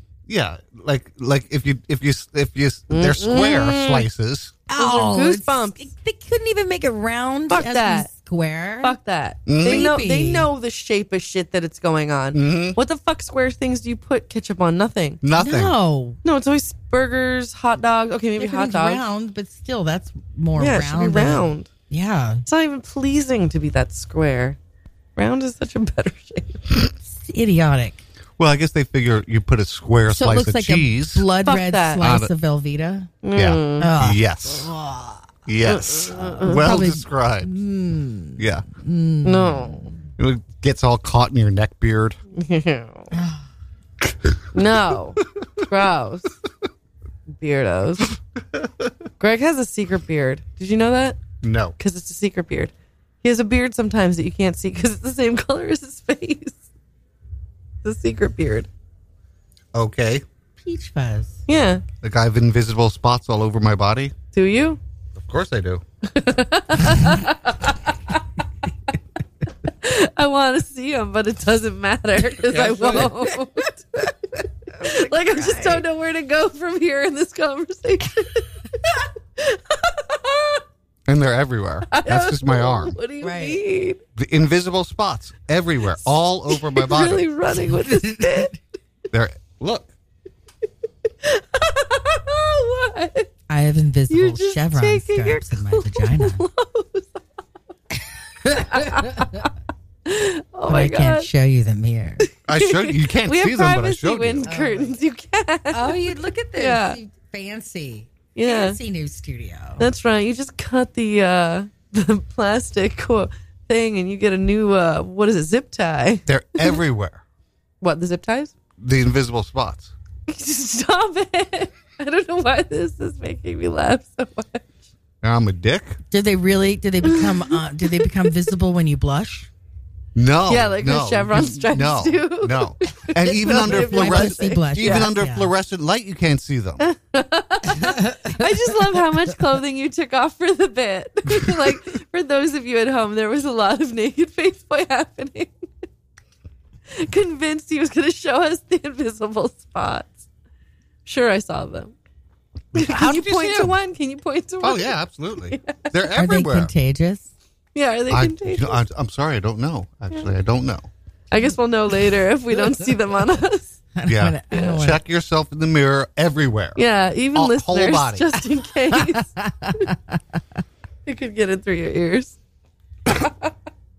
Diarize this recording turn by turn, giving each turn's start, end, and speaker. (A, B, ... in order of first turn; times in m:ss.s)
0:00.3-0:04.6 A
0:02.9-0:04.0 B
0:04.7-0:08.9 C
0:04.8-0:05.9 B
0:07.5-0:08.1 B
0:08.8-0:15.2 B
0:09.5-0:09.9 A
0:09.6-0:10.5 C
0:12.3-0:12.8 A
0:15.2-0:15.7 A
0:15.4-0:16.2 C
0:16.2-0:19.0 B
0:18.4-0:22.4 C
0:20.6-0:21.7 B
0:22.4-0:24.6 B
0:25.2-0:26.6 B
0:27.2-0:28.0 C
0:28.4-0:31.2 A
0:30.1-0:33.1 C
0:31.4-0:32.0 B
0:32.0-0:32.3 A
0:33.2-0:33.9 B
0:33.3-0:34.7 A
0:33.8-0:35.3 C
0:35.4-0:37.5 A
0:35.6-0:36.7 B
0:36.3-0:39.8 C
0:38.4-0:38.6 A
0:39.2-0:39.9 B
0:40.2-0:42.2 A
0:42.3-0:43.1 B
0:43.1-0:43.4 C
0:44.5-0:46.3 B
0:47.3-0:48.1 B
0:49.2-0:51.2 B
0:51.4-0:51.8 A
0:51.8-0:52.7 B
0:53.2-0:56.6 B
0:57.8-0:58.7 B
0:59.7-1:00.2 A
1:00.6-1:01.4 C
1:01.5-1:01.8 B
1:02.0-1:04.1 A
1:04.3-1:04.8 B
1:05.1-1:05.8 A
1:06.1-1:08.2 B
1:09.6-1:20.6 B
1:12.5-1:13.1 A
1:14.8-1:15.8 C
1:21.1-1:23.0 A
1:21.9-1:24.0 B
1:23.2-1:23.6 C
1:24.2-1:27.2 A
1:26.5-1:28.6 B
1:27.5-1:28.5 C
1:29.1-1:29.9 A
1:31.2-1:33.3 B
1:33.5-1:36.4 C
1:34.1-1:37.2 B
1:38.4-1:39.4 C
1:38.6-1:39.5 B
1:40.0-1:41.3 B
1:40.7-1:42.3 C
1:42.5-1:44.5 A
1:42.5-1:46.0 B
1:44.4-1:44.9 C
1:45.7-1:49.8 C
1:46.6-1:47.0 B
1:48.3-1:48.8 B
1:49.8-1:56.7 B
1:56.3-1:57.2 A
1:57.8-1:58.5 B
1:58.8-1:59.9 A
2:00.3-2:04.6 B
2:05.2-2:06.0 A
2:06.1-2:09.5 C
2:07.0-2:08.0 B
2:10.1-2:16.8 A
2:10.5-2:15.1 B
2:13.5-2:15.5 C
2:16.8-2:25.5 B
2:17.7-2:18.9 C
2:26.9-2:30.2 B
2:31.0-2:31.9 B
2:32.7-2:33.7 A
2:32.7-2:35.0 B
2:34.6-2:36.7 A
2:35.5-2:35.9 B
2:36.2-2:37.3 C
2:37.7-2:38.8 B
2:38.1-2:40.9 A
2:41.3-2:43.8 B
2:44.0-2:45.0 C
2:44.0-2:46.8 A
2:46.8-2:49.9 B
2:47.3-2:48.3 A
2:49.2-2:50.2 C
2:51.0-2:52.4 B